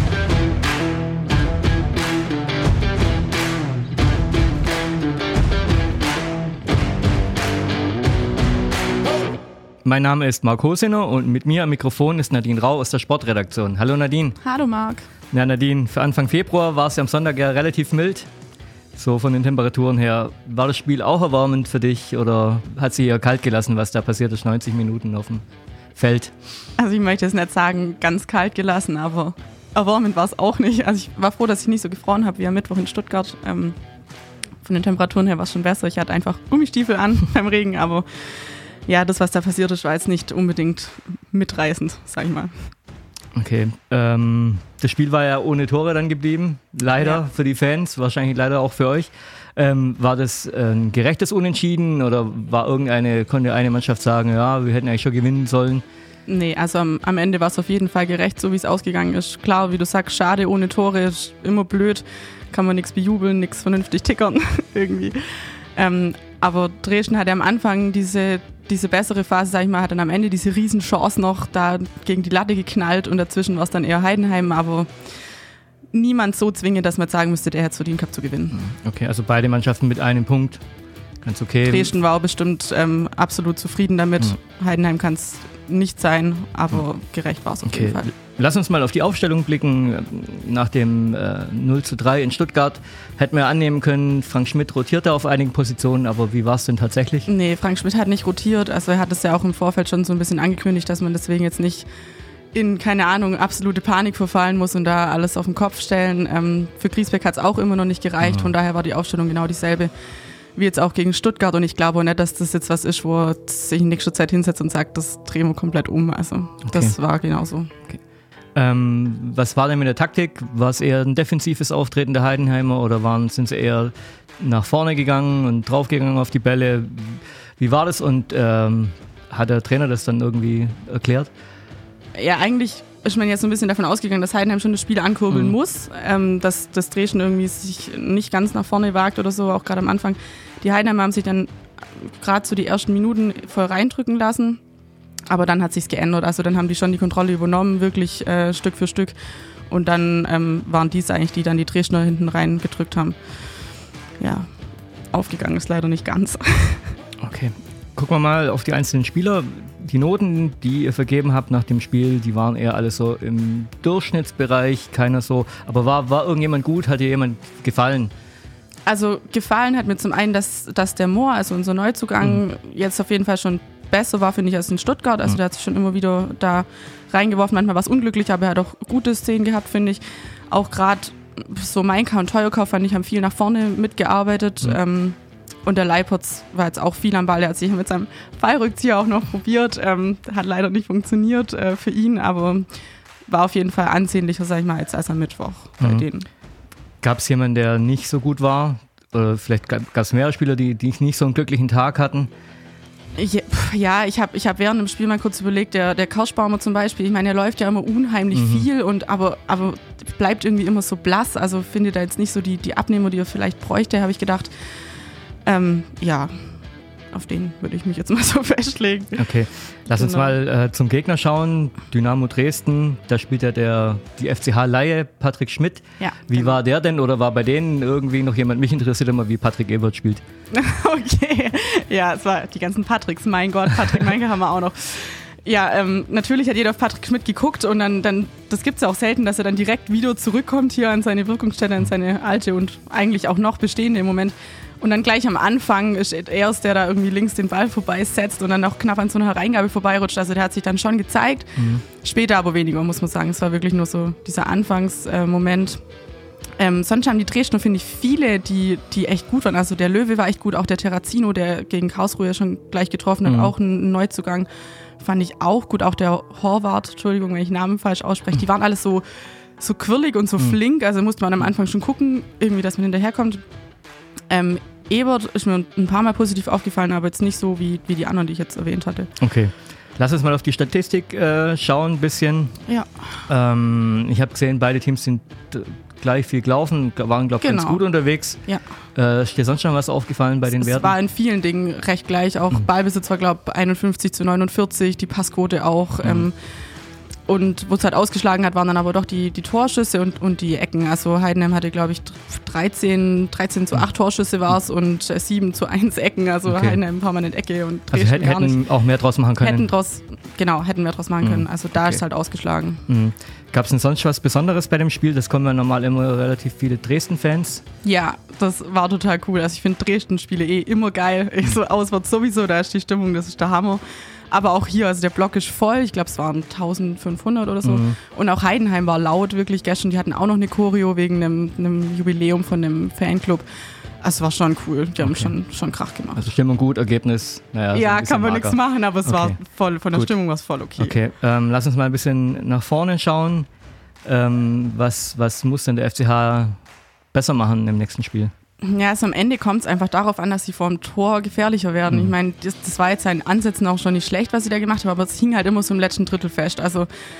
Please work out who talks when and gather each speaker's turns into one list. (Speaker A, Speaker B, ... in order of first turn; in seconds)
Speaker A: 9.8-14.4, 15.3-18.3, 18.9-25.4, 25.9-26.3, 43.3-55.8, 78.5-80.6, 81.2-81.9, 87.6-97.3, 116.7-116.9, 118.5-131.3, 157.2-168.1, 195.8-196.1, 197.0-202.3, 208.3-208.7, 219.2-230.2, 251.6-251.8, 263.2-263.5, 279.2-282.6, 283.3-288.4, 288.9-290.9, 306.5-306.8, 307.9-309.7, 311.2-312.0, 312.9-317.6, 327.6-328.0, 336.1-339.4, 340.8-343.5, 344.0-346.6, 347.1-348.3
Speaker B: 14.4-15.1, 26.8-33.7, 34.6-42.7, 56.3-75.0, 75.9-78.6, 81.6-88.1, 97.3-101.9, 102.5-109.9, 110.5-117.7, 132.2-144.6, 145.3-149.1, 149.7-153.2, 154.2-154.5, 155.1-156.9, 168.8-192.7, 193.3-196.3, 203.2-214.5, 215.4-216.5, 217.1-219.3, 219.9-220.3, 226.0-226.6, 230.5-255.8, 256.6-264.5, 265.0-269.0, 269.6-273.4, 274.3-279.1, 287.4-287.8, 290.5-296.3, 297.3-308.6, 309.4-312.8, 317.8-333.4, 334.0-336.3, 337.7-341.0, 348.6-356.9